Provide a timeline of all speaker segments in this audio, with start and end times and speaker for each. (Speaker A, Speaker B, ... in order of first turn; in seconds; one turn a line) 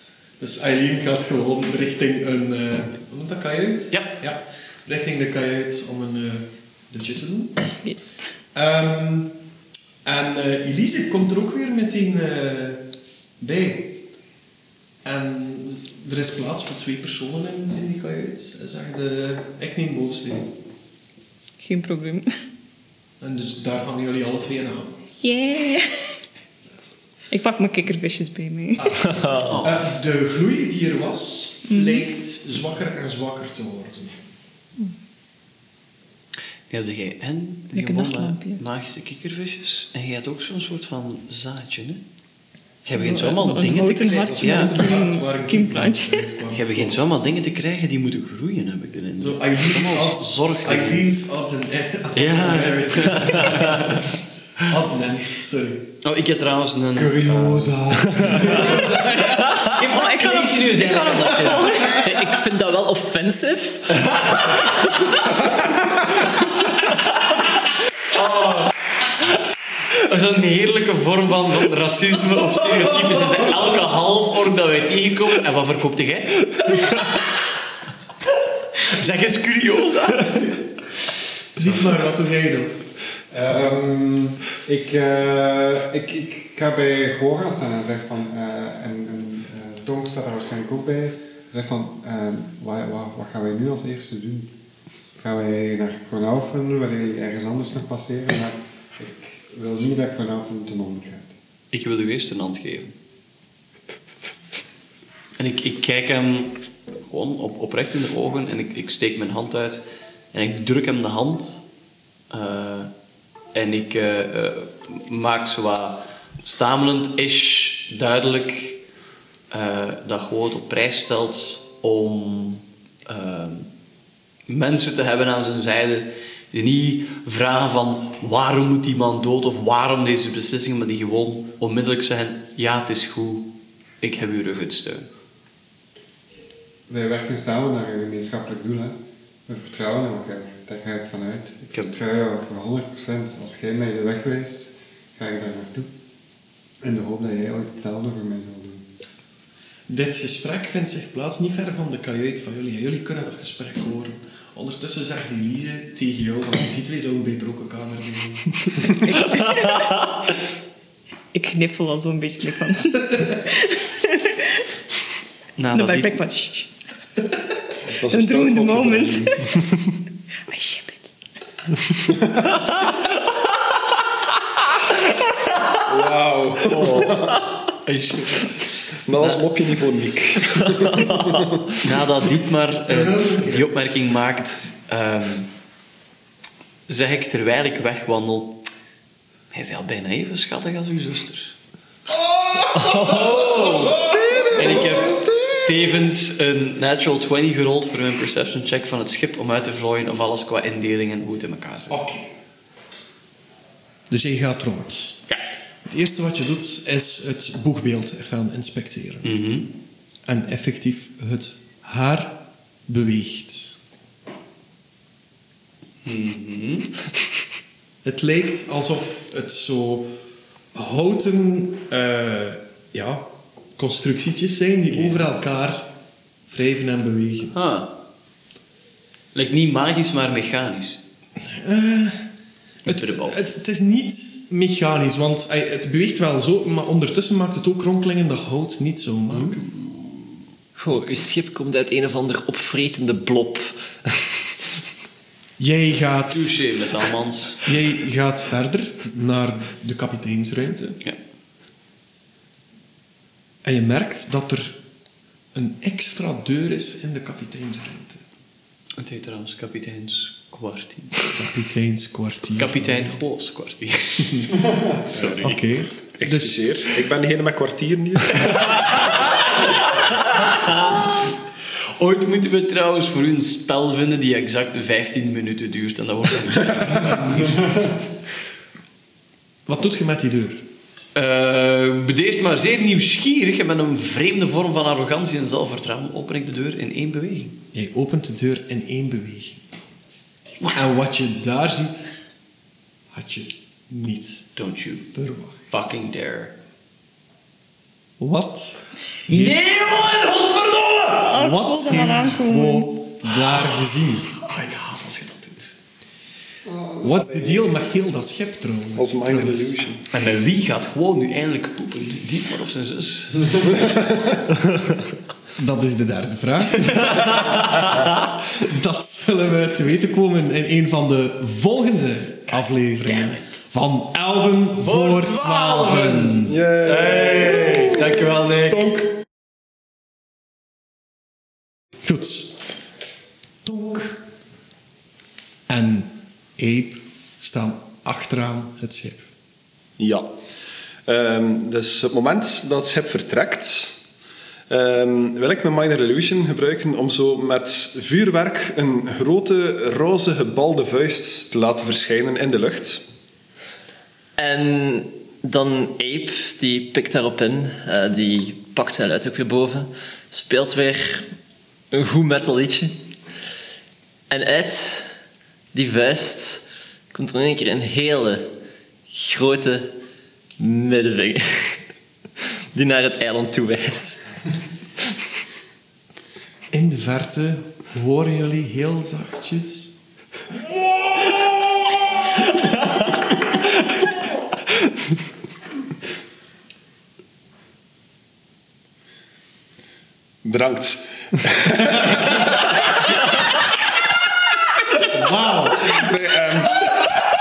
Speaker A: 0.4-7.7
Speaker A: 8.5-9.4
Speaker A: 10.0-12.9
Speaker A: 13.4-14.0
Speaker A: 15.0-20.5
Speaker B: 21.6-22.3
Speaker A: 23.2-25.2
Speaker B: 25.2-26.1
Speaker A: 26.6-27.1
Speaker B: 27.3-29.0
Speaker A: 28.8-34.2
Speaker C: 29.0-29.6
Speaker D: 29.4-29.8
Speaker B: 31.7-32.0
Speaker D: 36.7-42.0
Speaker B: 37.7-38.6
Speaker D: 42.9-44.9
Speaker B: 42.9-46.3
Speaker A: 44.2-47.1
Speaker D: 46.5-51.1
Speaker A: 49.2-53.8
Speaker D: 52.1-54.1
Speaker A: 54.6-55.9
Speaker D: 56.0-57.4
Speaker E: 57.1-58.6
Speaker A: 57.2-59.5
Speaker D: 58.4-59.0
Speaker B: 59.0-62.0
Speaker D: 59.5-61.9
Speaker C: 61.8-64.1
Speaker D: 68.1-68.7
Speaker D: 70.0-77.2
Speaker D: 78.8-80.6
Speaker A: 81.5-82.8
Speaker E: 83.3-94.5
Speaker E: 95.2-101.3
Speaker D: 101.7-102.9
Speaker D: 105.4-111.6
Speaker D: 112.3-112.9
Speaker D: 113.5-118.8
Speaker D: 119.5-123.7
Speaker D: 124.5-135.1
Speaker E: 136.9-138.9
Speaker E: 139.4-145.9
Speaker D: 141.7-142.0
Speaker E: 146.8-148.8
Speaker A: 149.9-158.4
Speaker B: 158.8-160.1
Speaker B: 161.3-164.5
Speaker D: 165.6-166.2
Speaker B: 165.7-166.7
Speaker B: 168.0-169.6
Speaker F: 168.0-169.3
Speaker B: 170.5-171.2
Speaker F: 175.8-177.4
Speaker C: 176.8-177.3
Speaker D: 177.8-178.6
Speaker F: 179.1-181.8
Speaker D: 179.2-179.6
Speaker C: 180.9-181.5
Speaker D: 181.8-185.5
Speaker A: 182.9-183.7
Speaker D: 186.9-188.6
Speaker D: 189.5-191.5
Speaker A: 192.1-195.2
Speaker C: 192.7-194.0
Speaker D: 193.1-193.8
Speaker D: 194.5-202.0
Speaker A: 201.9-202.3
Speaker A: 204.1-205.2
Speaker A: 205.8-209.3
Speaker D: 209.2-209.7
Speaker A: 210.2-213.8
Speaker D: 216.0-216.9
Speaker A: 218.0-220.1
Speaker A: 220.7-225.9
Speaker D: 224.9-225.2
Speaker A: 226.5-227.6
Speaker D: 227.5-227.9
Speaker D: 229.3-231.0
Speaker A: 231.4-232.3
Speaker A: 232.8-239.7
Speaker D: 232.9-233.4
Speaker D: 239.3-239.6
Speaker C: 240.8-243.7
Speaker A: 245.6-246.6
Speaker D: 246.3-247.7
Speaker A: 247.6-251.0
Speaker A: 253.6-254.8
Speaker A: 255.5-258.2
Speaker D: 259.0-261.2
Speaker A: 261.3-263.2
Speaker D: 262.6-265.6
Speaker A: 265.4-266.6
Speaker F: 266.2-268.7
Speaker D: 268.3-271.2
Speaker D: 272.0-277.8
Speaker A: 279.7-280.6
Speaker D: 281.1-287.6
Speaker A: 287.7-289.6
Speaker A: 290.7-292.1
Speaker A: 293.1-294.5
Speaker D: 294.6-295.1
Speaker A: 295.1-295.7
Speaker D: 295.7-296.5
Speaker A: 298.2-299.6
Speaker D: 299.3-301.2
Speaker B: 301.2-302.9
Speaker A: 301.3-304.3
Speaker D: 303.4-305.7
Speaker E: 306.7-307.7
Speaker A: 307.0-309.8
Speaker F: 308.9-310.0
Speaker D: 310.1-314.0
Speaker A: 315.6-317.6
Speaker A: 318.5-326.6
Speaker D: 324.8-329.0
Speaker F: 326.5-329.1
Speaker A: 332.0-332.6
Speaker A: 333.6-334.2
Speaker A: 335.7-339.3
Speaker F: 340.0-340.3
Speaker F: 341.1-343.9
Speaker F: 344.7-353.0
Speaker C: 354.4-361.2
Speaker C: 361.9-362.9
Speaker C: 364.3-365.1
Speaker C: 365.7-368.5
Speaker C: 369.1-369.9
Speaker C: 370.6-371.8
Speaker C: 372.7-374.4
Speaker A: 376.7-379.9
Speaker F: 390.4-392.5
Speaker A: 395.2-396.0
Speaker F: 395.8-396.9